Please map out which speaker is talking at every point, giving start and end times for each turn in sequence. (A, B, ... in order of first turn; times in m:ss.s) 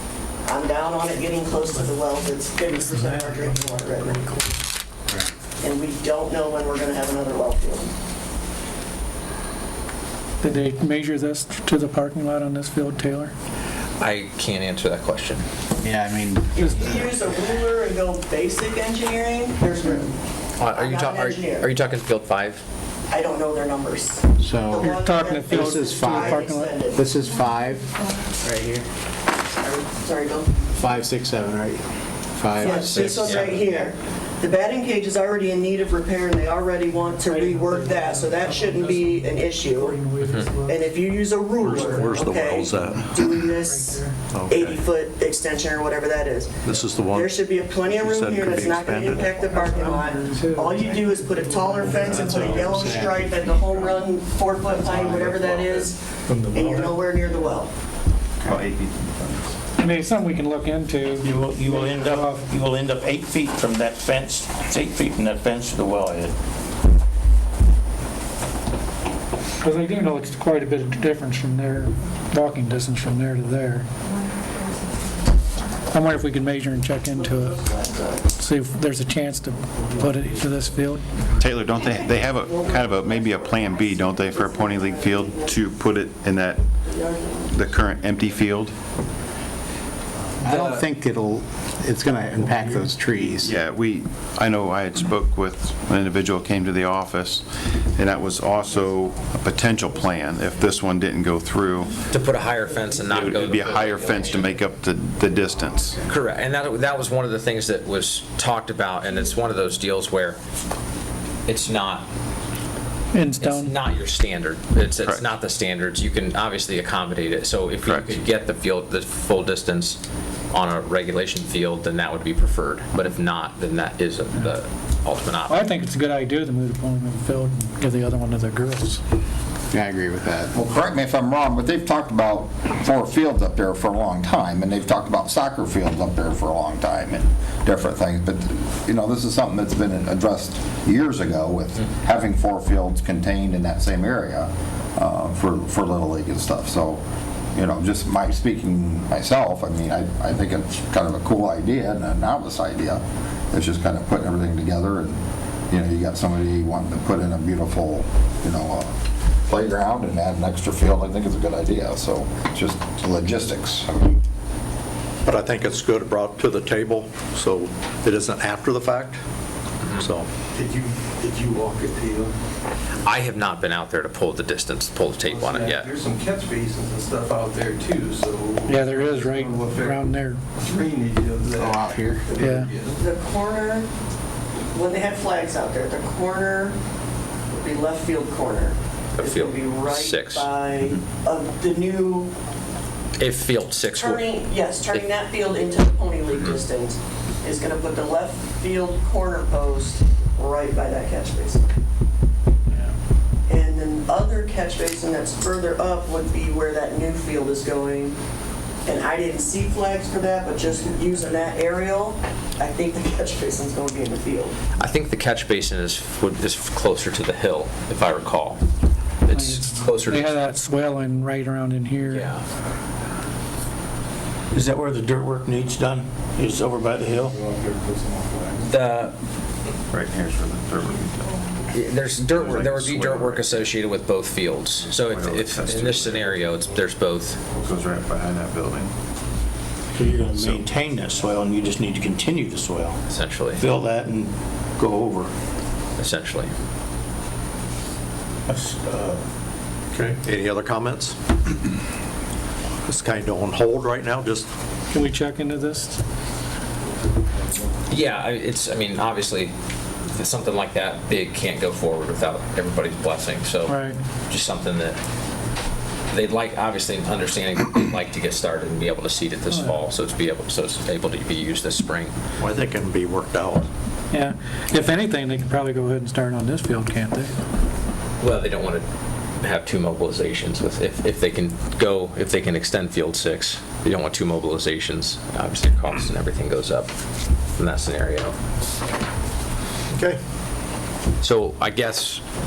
0:00.4-0:04.5 A
0:02.8-0:04.3 B
0:05.6-0:07.9 A
0:10.4-0:13.3 B
0:14.0-0:15.5 C
0:15.8-0:16.8 D
0:16.5-0:20.1 A
0:16.6-0:17.1 B
0:20.6-0:22.6 C
0:20.7-0:21.7 A
0:23.1-0:27.1 A
0:24.4-0:24.9 D
0:24.8-0:26.8 B
0:25.5-0:28.9 D
0:29.6-0:30.7 A
0:30.8-0:31.8 D
0:32.3-0:33.6 D
0:32.6-0:40.0 A
0:32.6-0:33.6 C
0:37.1-0:41.0 B
0:40.2-0:40.5 C
0:40.7-0:46.5 A
0:41.6-0:43.4 E
0:41.7-0:42.5 B
0:43.4-0:44.2 B
0:44.3-0:44.8 E
0:46.6-0:49.4 E
0:47.1-0:57.7 A
0:49.4-0:52.8 B
0:51.8-0:53.4 D
0:52.4-0:52.8 F
0:55.0-0:55.3 D
0:58.4-0:59.5 G
0:59.8-1:02.5 B
1:01.2-1:06.3 H
1:09.6-1:13.9 B
1:15.9-1:17.6 B
1:17.1-1:18.3 A
1:18.4-1:21.1 B
1:21.4-1:26.6 G
1:21.8-1:25.7 A
1:26.8-1:27.8 A
1:27.5-1:28.8 G
1:30.4-1:33.6 D
1:33.4-1:42.1 G
1:42.1-1:44.6 C
1:43.1-1:46.0 G
1:46.1-1:50.4 C
1:51.5-1:52.1 C
1:53.1-1:53.8 B
1:53.4-2:05.6 C
1:57.8-1:58.2 G
2:05.5-2:09.0 B
2:09.7-2:10.5 D
2:10.6-2:27.0 I
2:27.5-2:35.2 I
2:35.7-2:38.9 I
2:39.5-2:44.2 I
2:45.2-2:49.2 E
2:50.0-2:50.3 E
2:50.5-2:52.3 F
2:53.0-2:55.9 C
2:55.2-3:00.1 F
2:58.7-3:00.4 B
3:00.6-3:03.0 F
3:01.6-3:02.2 D
3:02.4-3:02.7 B
3:02.9-3:03.9 A
3:04.7-3:06.8 A
3:07.5-3:12.3 A
3:09.2-3:10.5 C
3:13.2-3:14.2 C
3:14.0-3:21.6 A
3:23.5-3:28.2 A
3:28.9-3:34.6 A
3:34.8-3:38.6 C
3:39.2-3:40.4 C
3:39.3-3:42.3 B
3:42.1-3:42.4 C
3:44.5-3:47.4 H
3:48.6-3:49.1 C
3:49.9-3:51.4 G
3:51.7-3:57.4 C
3:52.3-3:53.7 G
3:54.8-3:56.3 G
3:57.5-3:58.9 G
3:59.9-4:03.0 H
4:03.1-4:03.7 C
4:03.6-4:05.3 H
4:06.0-4:06.5 C
4:08.5-4:09.2 H
4:09.9-4:11.2 E
4:12.9-4:14.5 E
4:14.9-4:15.9 B
4:17.9-4:19.5 C
4:20.1-4:25.0 C
4:23.7-4:24.0 B
4:26.1-4:32.1 C
4:29.5-4:29.8 B
4:32.4-4:33.7 H
4:34.1-4:37.3 B
4:38.2-4:38.9 C
4:39.4-4:46.9 C
4:47.6-4:48.4 C
4:49.9-4:50.2 E
4:51.2-4:52.2 C